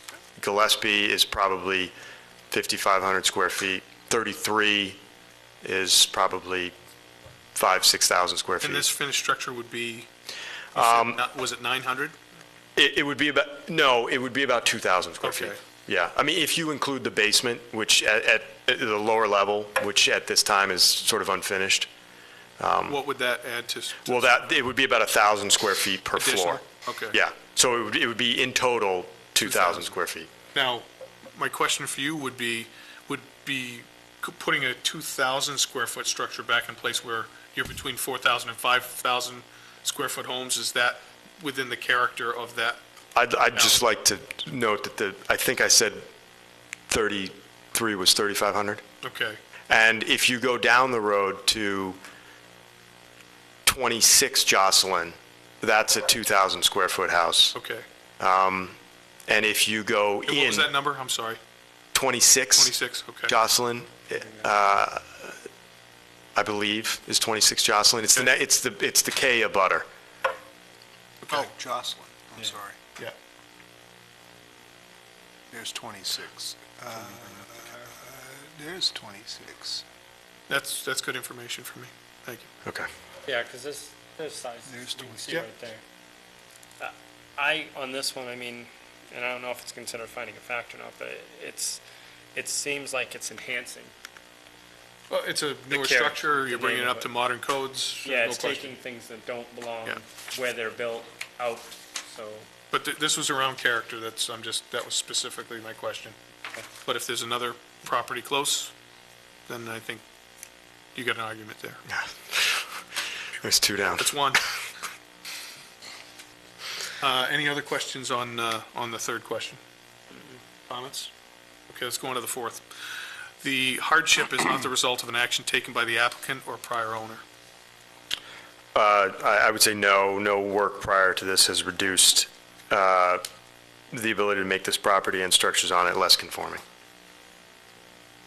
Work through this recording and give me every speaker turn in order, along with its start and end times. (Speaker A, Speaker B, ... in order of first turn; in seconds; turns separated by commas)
Speaker A: 0.4-1.9, Speaker A: 2.5-5.0, Speaker A: 5.6-6.7, Speaker A: 7.5-8.9, Speaker B: 8.6-10.1, Speaker A: 10.7-11.2, Speaker B: 10.7-12.2, Speaker A: 12.8-21.9, Speaker B: 15.2-15.6, Speaker A: 22.6-23.0, Speaker B: 22.9-24.4, Speaker A: 24.0-30.3, Speaker B: 26.1-27.2, Speaker B: 29.4-29.9, Speaker B: 30.5-42.8, Speaker A: 43.1-46.1, Speaker B: 43.5-43.8, Speaker A: 46.9-48.8, Speaker B: 49.0-49.4, Speaker A: 49.7-52.0, Speaker A: 53.6-57.5, Speaker B: 57.5-57.8, Speaker A: 58.2-60.7, Speaker B: 60.3-61.4, Speaker A: 61.9-62.7, Speaker B: 62.5-63.3, Speaker A: 63.3-65.4, Speaker A: 66.3-69.9, Speaker B: 71.2-71.5, Speaker C: 71.2-72.8, Speaker C: 75.5-79.8, Speaker B: 80.5-82.5, Speaker D: 83.2-85.8, Speaker C: 84.7-85.3, Speaker D: 86.8-91.8, Speaker D: 92.3-93.9, Speaker B: 95.1-98.7, Speaker D: 95.7-97.1, Speaker D: 98.0-102.5, Speaker B: 102.7-106.1, Speaker B: 106.8-108.7, Speaker B: 109.5-110.0, Speaker B: 110.9-111.8, Speaker A: 111.9-112.8, Speaker A: 113.4-114.2, Speaker B: 114.0-114.4, Speaker B: 117.0-119.6, Speaker B: 120.7-121.1, Speaker B: 121.7-122.7, Speaker B: 123.4-127.2, Speaker A: 128.7-133.2, Speaker A: 133.9-136.6